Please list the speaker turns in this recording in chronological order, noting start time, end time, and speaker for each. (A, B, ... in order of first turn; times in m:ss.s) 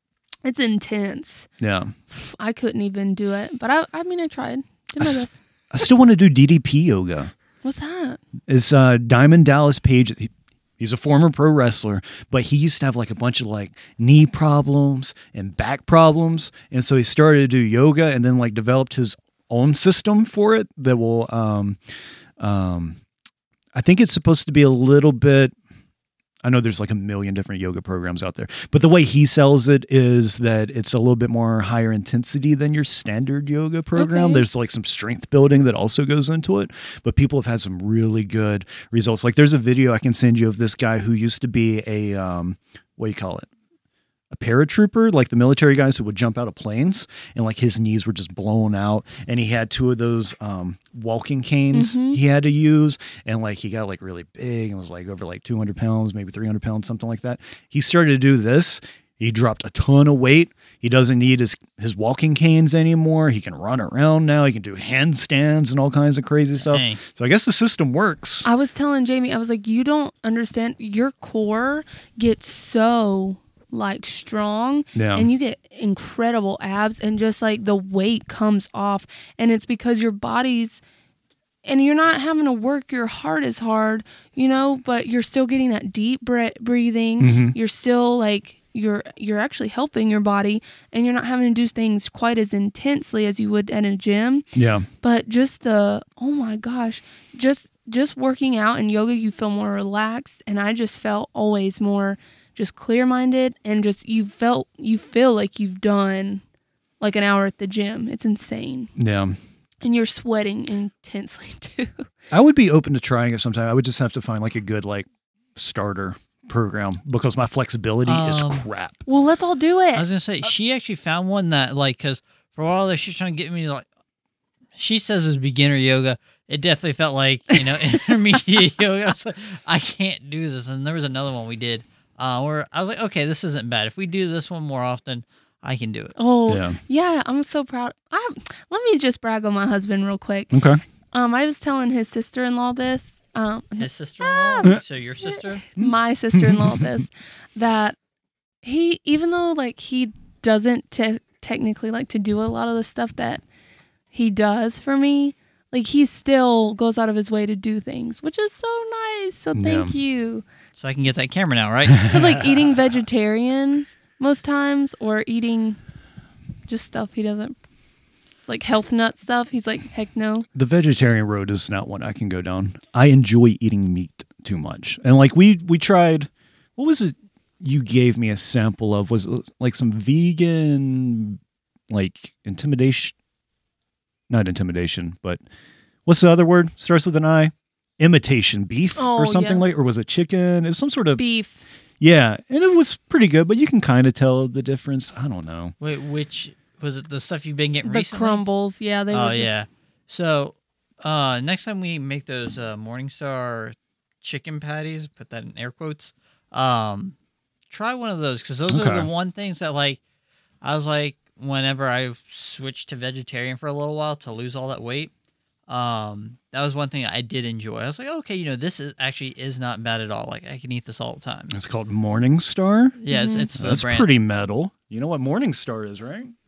0:00.4-0:01.5 A
0:01.6-0:01.9 B
0:02.1-0:05.3 A
0:05.0-0:07.3 B
0:07.6-0:08.2 A
0:08.5-0:21.8 B
0:22.4-0:23.0 B
0:23.7-0:25.5 B
0:26.4-0:43.5 B
0:34.0-0:34.4 A
0:44.3-1:08.5 B
0:51.7-0:52.2 A
1:06.6-1:07.0 C
1:08.4-1:20.8 A
1:14.9-1:15.3 B
1:21.6-1:34.4 A
1:27.2-1:27.5 B
1:34.5-1:34.9 B
1:35.0-1:46.4 A
1:47.0-1:48.9 A
1:49.0-1:49.4 B
1:49.8-1:52.0 A
1:52.3-1:59.0 B
1:58.0-1:58.6 C
1:59.1-2:00.0 A
1:59.9-2:03.8 C
2:04.8-2:16.1 C
2:16.2-2:20.6 A
2:16.5-2:16.8 B
2:20.5-2:20.8 B
2:21.1-2:28.0 A
2:23.8-2:25.7 C
2:25.8-2:26.8 B
2:28.6-2:33.4 A
2:34.1-2:40.4 A
2:39.5-2:39.9 B
2:40.8-2:42.4 C
2:42.0-2:45.8 A
2:46.7-2:47.5 A
2:48.5-2:50.4 A
2:50.5-3:01.4 B
3:01.9-3:03.1 B
3:04.3-3:05.4 B
3:06.0-3:11.2 B
3:09.0-3:09.6 A
3:11.1-3:11.6 A
3:12.0-3:15.7 B
3:15.8-3:18.4 C
3:17.8-3:19.6 A
3:19.1-3:27.1 C
3:27.7-3:30.0 C
3:28.7-3:29.1 B
3:30.6-3:35.1 C
3:35.7-3:41.6 C
3:41.5-3:43.0 B
3:43.0-3:44.1 C
3:43.1-3:43.5 A
3:43.5-3:46.3 B